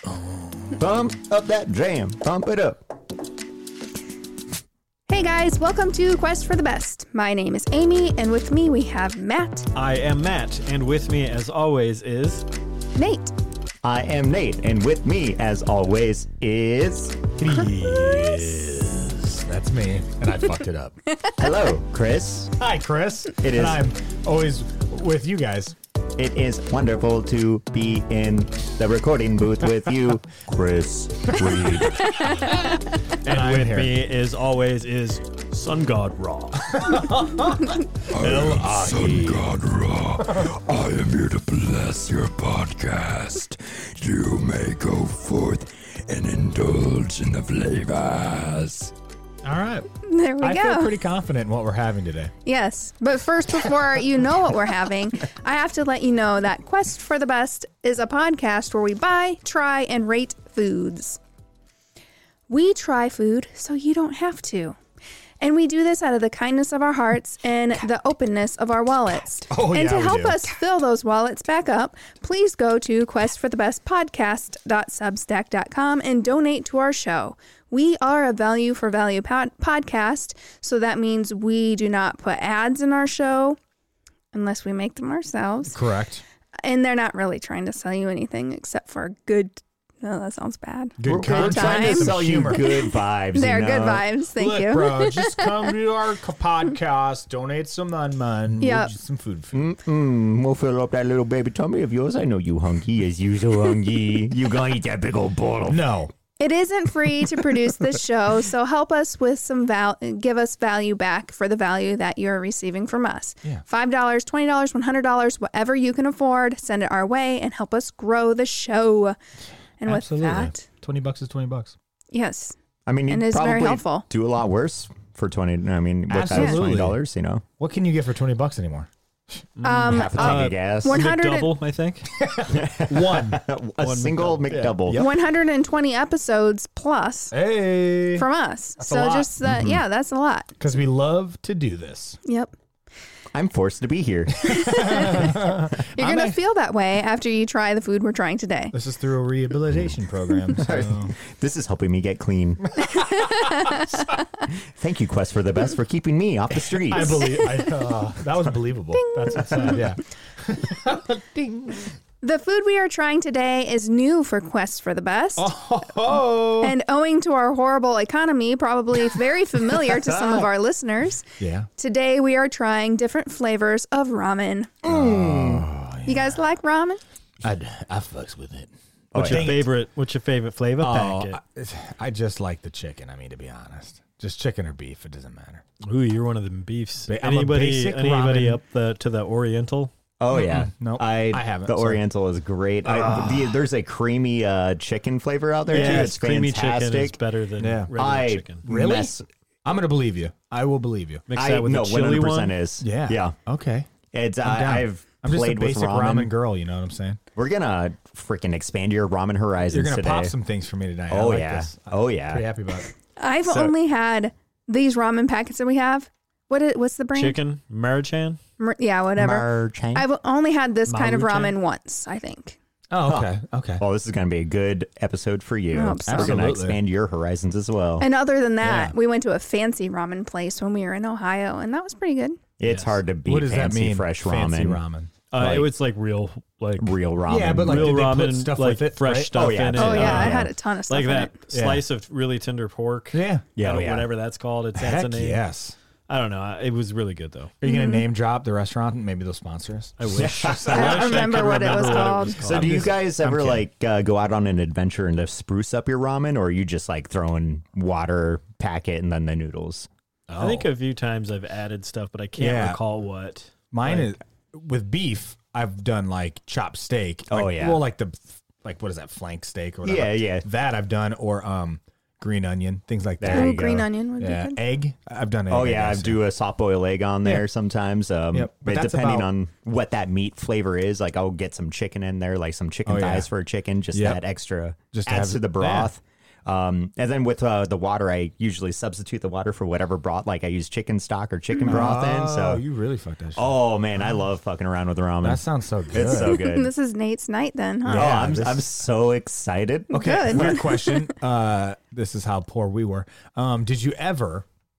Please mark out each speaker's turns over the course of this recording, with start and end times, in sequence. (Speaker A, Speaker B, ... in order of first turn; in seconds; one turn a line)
Speaker A: 0.3-0.7
Speaker B: 0.7-2.8
Speaker C: 5.1-9.7
Speaker D: 9.8-12.4
Speaker C: 13.0-13.3
Speaker B: 13.8-17.3
Speaker A: 17.4-21.0
Speaker C: 17.7-18.3
Speaker B: 21.4-22.5
Speaker A: 22.6-25.8
Speaker B: 23.4-23.8
Speaker B: 26.2-32.2
Speaker A: 31.3-32.5
Speaker D: 33.2-36.9
Speaker A: 33.2-34.0
Speaker A: 36.7-39.5
Speaker E: 38.1-48.9
Speaker A: 49.4-49.9
Speaker C: 50.0-51.0
Speaker A: 50.4-52.3
Speaker C: 52.5-61.2
Speaker C: 62.5-64.8
Speaker C: 65.4-83.6
Speaker A: 69.5-70.5
Speaker C: 84.3-85.8
Speaker A: 85.7-86.2
Speaker C: 86.6-95.5
Speaker A: 91.0-92.8
Speaker B: 91.0-94.1
Speaker A: 94.4-99.7
Speaker C: 98.6-98.9
Speaker B: 99.5-105.8
Speaker A: 105.7-106.1
Speaker C: 106.4-119.2
Speaker C: 119.8-120.6
Speaker A: 119.8-121.8
Speaker C: 122.1-122.6
Speaker B: 122.9-127.4
Speaker C: 123.1-124.0
Speaker A: 126.1-127.0
Speaker C: 126.3-126.6
Speaker A: 127.6-129.4
Speaker D: 129.6-132.1
Speaker C: 129.6-131.6
Speaker B: 129.9-131.0
Speaker A: 132.1-133.4
Speaker B: 132.5-135.1
Speaker D: 133.8-134.6
Speaker A: 134.5-135.2
Speaker C: 134.9-137.3
Speaker A: 137.3-139.3
Speaker C: 138.1-140.5
Speaker B: 139.4-139.8
Speaker A: 140.6-142.2
Speaker C: 142.3-142.5
Speaker B: 143.3-145.1
Speaker A: 144.4-146.4
Speaker C: 144.4-148.8
Speaker A: 148.7-151.2
Speaker B: 150.6-153.0
Speaker A: 152.8-153.5
Speaker C: 152.9-154.2
Speaker B: 154.5-157.4
Speaker A: 156.7-161.9
Speaker C: 157.2-157.5
Speaker C: 158.9-159.9
Speaker C: 162.2-165.5
Speaker A: 165.4-166.8
Speaker C: 166.6-171.3
Speaker B: 170.2-170.4
Speaker A: 171.4-171.7
Speaker C: 171.8-174.8
Speaker B: 174.8-175.7
Speaker A: 174.8-176.4
Speaker C: 176.1-177.0
Speaker A: 177.4-179.7
Speaker B: 179.1-179.6
Speaker D: 179.2-181.4
Speaker A: 180.8-185.6
Speaker D: 185.8-189.9
Speaker A: 187.1-188.6
Speaker B: 190.2-197.2
Speaker A: 190.3-192.0
Speaker A: 192.8-193.6
Speaker A: 195.7-196.2
Speaker D: 195.7-198.6
Speaker A: 197.6-197.9
Speaker B: 198.0-199.2
Speaker A: 198.6-201.2
Speaker D: 201.3-202.6
Speaker B: 201.3-203.4
Speaker A: 202.8-203.9
Speaker B: 204.1-206.3
Speaker A: 204.4-207.2
Speaker B: 207.3-210.3
Speaker A: 209.7-212.9
Speaker B: 211.1-212.5
Speaker C: 213.2-217.4
Speaker B: 213.5-213.8
Speaker D: 217.2-218.4
Speaker C: 218.6-222.6
Speaker B: 219.2-220.1
Speaker D: 220.9-221.6
Speaker A: 222.9-223.8
Speaker B: 223.0-228.1
Speaker C: 225.7-226.4
Speaker A: 226.1-226.8
Speaker C: 228.0-232.4
Speaker A: 228.6-228.9
Speaker B: 232.6-234.8
Speaker D: 232.6-233.0
Speaker A: 233.3-235.1
Speaker D: 235.3-237.0
Speaker B: 235.4-235.7
Speaker B: 236.8-238.0
Speaker A: 237.3-240.3
Speaker D: 237.6-245.4
Speaker B: 239.3-240.4
Speaker C: 239.8-241.3
Speaker A: 241.5-241.8
Speaker A: 243.1-243.5
Speaker B: 243.6-244.1
Speaker A: 244.8-245.8
Speaker D: 246.1-247.6
Speaker A: 247.6-253.7
Speaker C: 247.6-248.0
Speaker D: 250.0-252.9
Speaker B: 250.1-251.2
Speaker C: 250.7-252.4
Speaker B: 252.4-259.9
Speaker A: 260.3-260.7
Speaker D: 260.4-264.1
Speaker A: 262.4-262.8
Speaker A: 263.7-276.2
Speaker B: 267.3-267.8
Speaker B: 269.8-270.5
Speaker B: 273.2-273.9
Speaker C: 273.3-274.6
Speaker B: 275.5-292.6
Speaker A: 278.3-279.3
Speaker A: 282.9-283.3
Speaker A: 283.9-284.2
Speaker A: 284.9-285.9
Speaker A: 291.6-294.2
Speaker B: 293.4-296.7
Speaker A: 295.2-296.4
Speaker C: 296.0-298.1
Speaker A: 297.9-298.8
Speaker B: 297.9-300.7
Speaker A: 299.9-304.5
Speaker C: 299.9-301.1